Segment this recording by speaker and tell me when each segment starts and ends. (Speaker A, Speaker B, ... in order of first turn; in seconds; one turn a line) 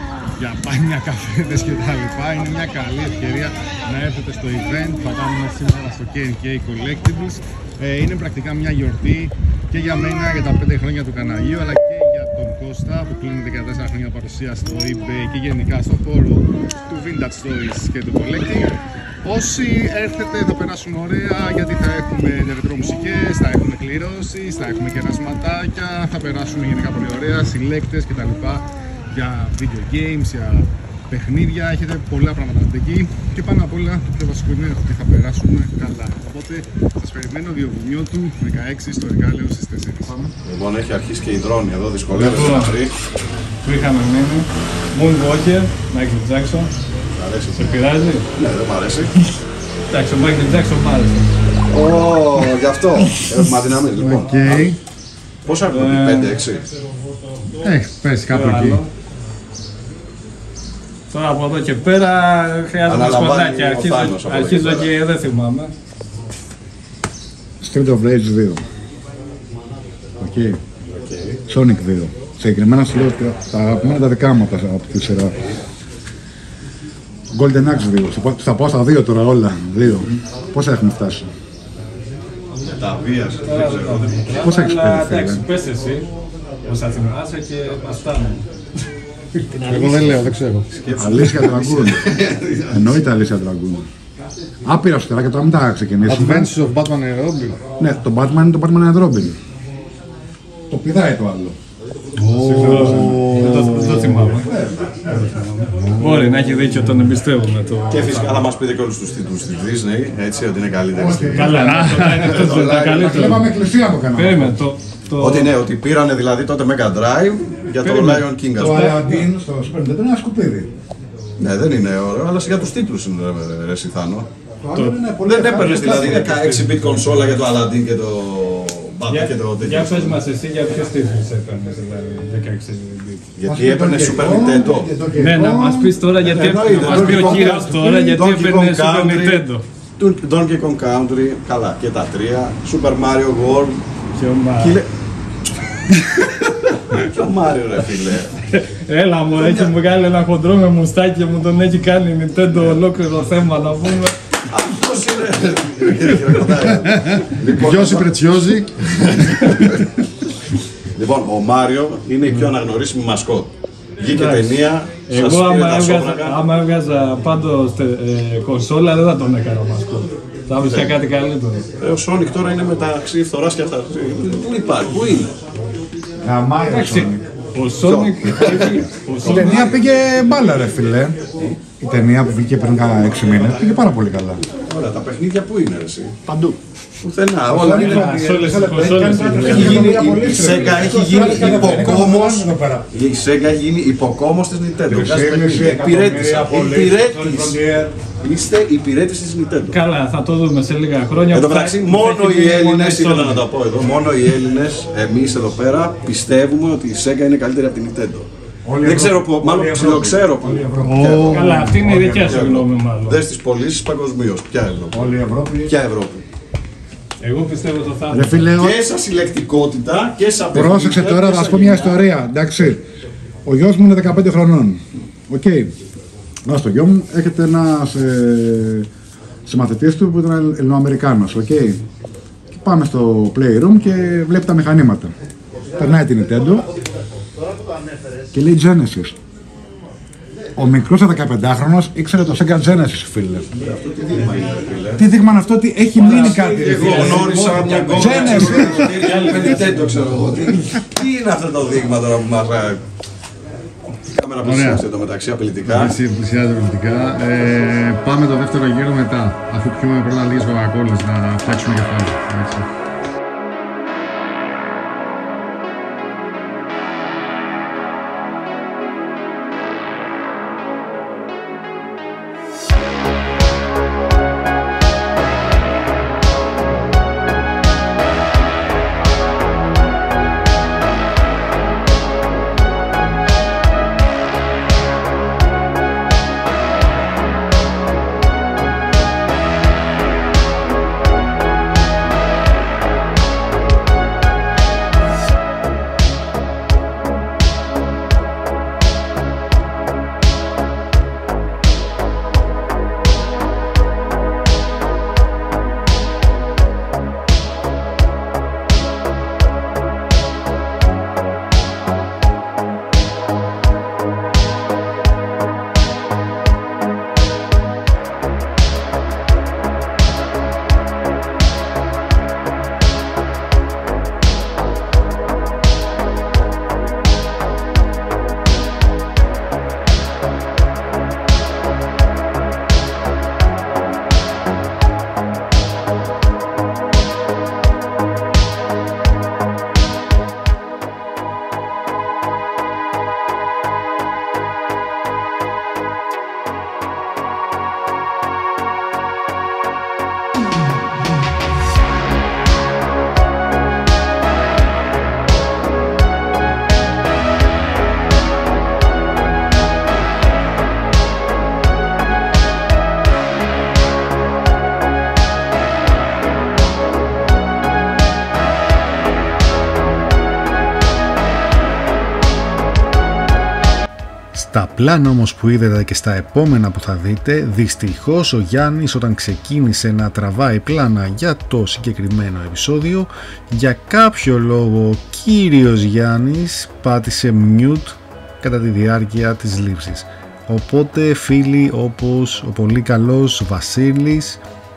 Speaker A: 0.4-40.3
Speaker B: 40.5-42.9
Speaker C: 42.1-42.8
Speaker C: 43.6-46.7
Speaker B: 47.1-47.7
Speaker C: 47.6-48.3
Speaker B: 48.4-49.1
Speaker C: 49.9-51.3
Speaker B: 51.7-54.7
Speaker A: 54.0-54.8
Speaker B: 55.5-56.6
Speaker C: 55.7-56.4
Speaker A: 57.6-58.8
Speaker C: 58.3-58.9
Speaker C: 61.1-65.7
Speaker B: 62.9-64.9
Speaker D: 67.6-68.6
Speaker D: 70.2-70.6
Speaker B: 71.0-71.4
Speaker D: 71.5-75.3
Speaker D: 77.3-81.3
Speaker B: 82.7-84.4
Speaker C: 83.5-86.0
Speaker D: 84.4-85.4
Speaker C: 86.7-88.4
Speaker A: 89.5-90.7
Speaker B: 90.7-92.7
Speaker D: 91.0-92.1
Speaker D: 92.7-93.9
Speaker D: 94.7-96.5
Speaker A: 96.1-97.6
Speaker D: 97.8-99.4
Speaker D: 100.7-101.6
Speaker A: 102.3-103.9
Speaker D: 102.3-105.2
Speaker C: 102.4-104.5
Speaker C: 105.2-108.4
Speaker D: 105.8-106.2
Speaker B: 107.9-113.3
Speaker D: 110.9-114.6
Speaker C: 111.3-113.5
Speaker C: 114.2-115.5
Speaker B: 115.2-119.0
Speaker C: 117.8-119.0
Speaker D: 118.6-120.7
Speaker B: 121.4-124.3
Speaker D: 124.6-126.6
Speaker C: 124.8-126.8
Speaker B: 125.2-130.2
Speaker C: 129.1-133.2
Speaker B: 133.4-134.9
Speaker D: 133.5-136.0
Speaker C: 135.2-139.6
Speaker B: 136.2-139.4
Speaker D: 136.8-137.7
Speaker B: 140.0-143.8
Speaker C: 144.2-144.8
Speaker B: 144.6-144.9
Speaker B: 147.0-148.3
Speaker C: 148.5-154.2
Speaker B: 149.4-149.7
Speaker B: 154.5-158.2
Speaker A: 156.9-158.9
Speaker B: 161.0-166.4
Speaker C: 164.1-171.7
Speaker B: 170.6-171.0
Speaker B: 171.8-175.3
Speaker D: 176.2-177.3
Speaker C: 176.7-179.8
Speaker B: 177.8-179.7
Speaker D: 179.2-181.2
Speaker D: 181.8-184.4
Speaker B: 184.7-186.2
Speaker D: 186.3-186.6
Speaker B: 187.0-192.4
Speaker D: 187.5-192.9
Speaker C: 187.6-190.3
Speaker A: 190.8-192.5
Speaker B: 192.9-197.6
Speaker D: 194.9-197.9
Speaker B: 198.2-199.8
Speaker C: 199.7-203.5
Speaker B: 201.3-208.3
Speaker D: 208.7-212.1
Speaker B: 208.8-215.1
Speaker A: 210.8-211.4
Speaker C: 211.3-213.2
Speaker D: 214.9-215.8
Speaker B: 215.7-216.2
Speaker C: 217.2-218.5
Speaker D: 218.1-218.8
Speaker B: 218.6-222.0
Speaker D: 220.5-222.8
Speaker D: 223.5-225.7
Speaker D: 226.4-228.9
Speaker D: 229.5-231.8
Speaker D: 232.5-235.1
Speaker D: 235.8-236.7
Speaker D: 238.3-239.2
Speaker D: 240.6-243.5
Speaker B: 243.6-245.0
Speaker D: 245.0-249.3
Speaker C: 246.0-248.4
Speaker B: 246.1-252.8
Speaker A: 246.7-248.4
Speaker C: 248.9-249.3
Speaker B: 254.1-255.9
Speaker A: 254.4-254.8
Speaker A: 255.6-262.7
Speaker A: 374.3-394.4